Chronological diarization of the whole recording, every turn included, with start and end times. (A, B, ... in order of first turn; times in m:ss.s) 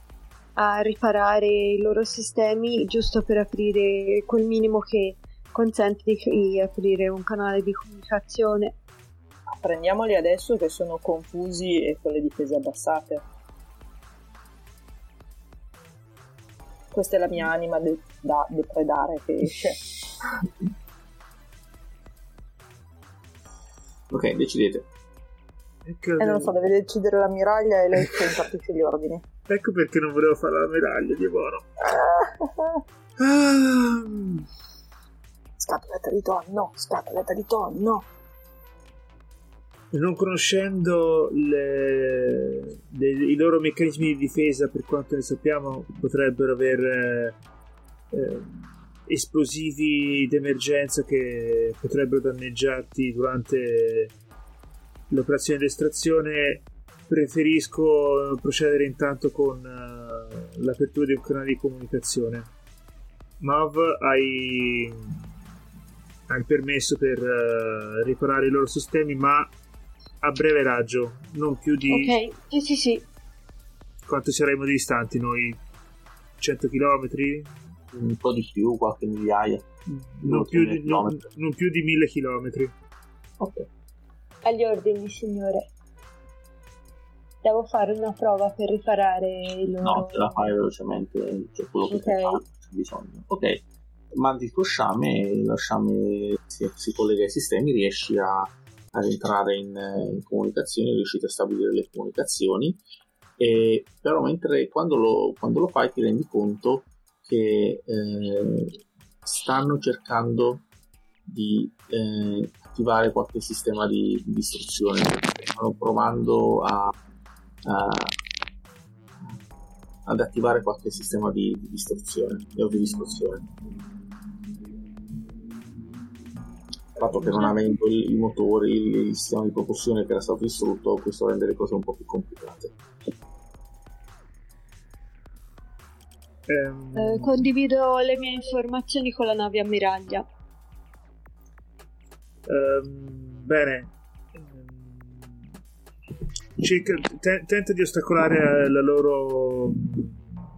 0:00.6-0:08.7 A
0:09.5-0:13.2 B
0:16.9-0:19.8 B
0:24.1-0:24.9 C
0:25.8-0:26.5 D
0:26.2-0:29.2 B
0:28.0-0:28.4 D
0:29.5-0:31.6 D
0:31.8-0:32.8 B
0:33.2-0:34.5 D
0:35.6-0:38.1 B
0:39.9-0:47.4 D
0:48.1-0:54.1 D
0:55.1-1:02.5 D
1:03.4-1:05.2 D
1:06.3-1:09.5 D
1:10.2-1:12.1 D
1:11.9-1:13.0 A
1:14.0-1:15.6 D
1:16.4-1:17.5 D
1:17.9-1:19.7 C
1:19.9-1:22.7 D
1:20.2-1:21.2 C
1:23.4-1:23.7 C
1:24.4-1:25.7 A
1:27.4-1:30.5 A
1:29.8-1:33.6 C
1:31.9-1:32.4 A
1:34.1-1:42.8 C
1:43.4-1:50.6 C
1:51.2-1:56.9 C
1:57.6-1:58.1 C
2:00.0-2:03.4 C
2:07.0-2:12.7 C
2:16.5-2:17.4 D
2:16.9-2:20.2 A
2:22.4-2:25.5 D
2:26.6-2:30.4 D